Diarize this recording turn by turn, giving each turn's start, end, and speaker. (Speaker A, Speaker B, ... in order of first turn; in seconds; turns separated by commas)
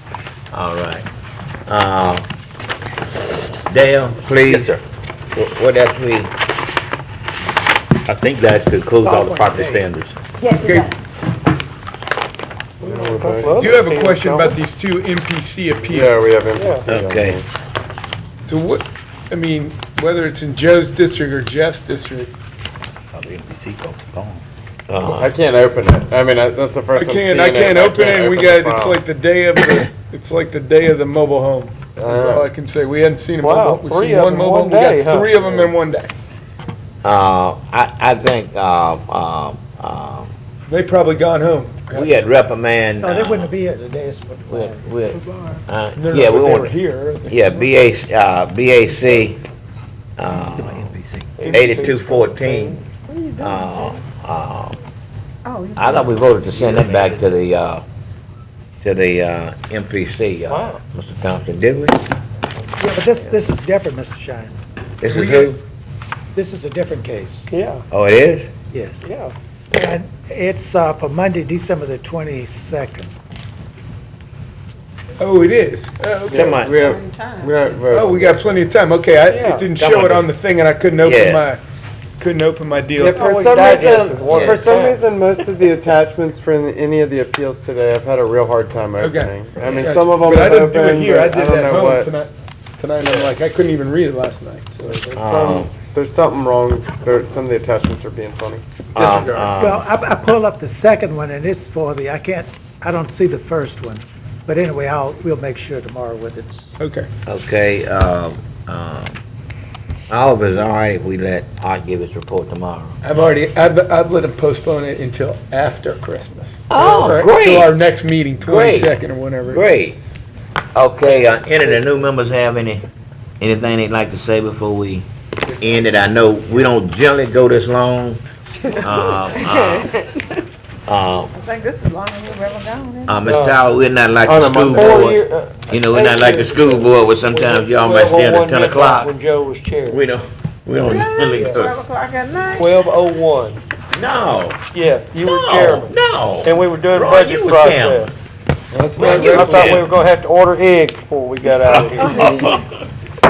Speaker A: 0.5-1.1, Speaker A: 1.7-2.2, Speaker A: 3.7-4.7, Speaker B: 4.3-4.8, Speaker A: 5.3-6.3, Speaker B: 8.1-10.2, Speaker C: 8.9-9.8, Speaker D: 10.4-10.9, Speaker E: 10.6-10.9, Speaker F: 12.8-13.9, Speaker G: 12.8-14.6, Speaker E: 13.5-16.4, Speaker F: 15.9-17.4, Speaker G: 16.5-16.9, Speaker A: 16.9-17.4, Speaker E: 18.4-22.3, Speaker B: 23.1-24.4, Speaker A: 24.9-25.3, Speaker F: 25.1-29.0, Speaker E: 26.9-36.1, Speaker F: 32.0-32.5, Speaker G: 33.4-35.7, Speaker A: 37.0-40.3, Speaker E: 40.7-42.3, Speaker A: 41.9-43.5, Speaker C: 43.0-45.4, Speaker A: 44.5-46.7, Speaker E: 45.9-47.7, Speaker A: 47.3-49.4, Speaker A: 50.2-52.8, Speaker B: 50.7-51.5, Speaker G: 51.4-53.3, Speaker A: 53.4-54.8, Speaker D: 55.5-56.3, Speaker A: 55.8-57.8, Speaker B: 56.5-57.1, Speaker A: 58.8-62.0, Speaker G: 60.5-60.8, Speaker C: 62.8-64.6, Speaker A: 65.0-65.6, Speaker E: 65.1-65.5, Speaker C: 66.3-67.5, Speaker G: 67.5-67.8, Speaker A: 67.9-68.5, Speaker C: 68.7-69.0, Speaker G: 69.0-69.3, Speaker C: 69.7-73.1, Speaker E: 75.2-76.5, Speaker F: 76.3-78.4, Speaker A: 76.3-76.9, Speaker D: 76.7-77.6, Speaker E: 77.9-81.6, Speaker G: 79.3-79.7, Speaker A: 79.8-80.2, Speaker A: 81.0-81.5, Speaker E: 82.2-83.3, Speaker F: 82.9-92.1, Speaker G: 83.1-85.1, Speaker D: 83.2-84.2, Speaker A: 84.2-84.6, Speaker E: 89.0-95.1, Speaker F: 95.0-99.5, Speaker A: 95.2-95.7, Speaker A: 98.9-99.8, Speaker C: 99.6-106.7, Speaker E: 106.8-107.1, Speaker A: 107.2-109.2, Speaker A: 110.1-113.0, Speaker E: 113.0-119.7, Speaker A: 116.7-117.7, Speaker A: 118.4-120.0, Speaker A: 120.7-122.8, Speaker A: 123.4-125.1, Speaker A: 125.6-129.9, Speaker D: 129.3-129.9, Speaker A: 130.8-131.3, Speaker D: 131.3-133.3, Speaker A: 133.1-139.1, Speaker G: 133.2-133.6, Speaker F: 134.2-135.1, Speaker G: 134.7-140.0, Speaker A: 139.9-141.8, Speaker D: 140.8-142.9, Speaker G: 141.4-141.6, Speaker G: 142.5-143.6, Speaker A: 143.9-144.6, Speaker G: 144.7-148.2, Speaker A: 145.2-148.1, Speaker E: 148.7-149.9, Speaker A: 148.9-149.9, Speaker G: 149.0-152.5, Speaker A: 151.4-152.7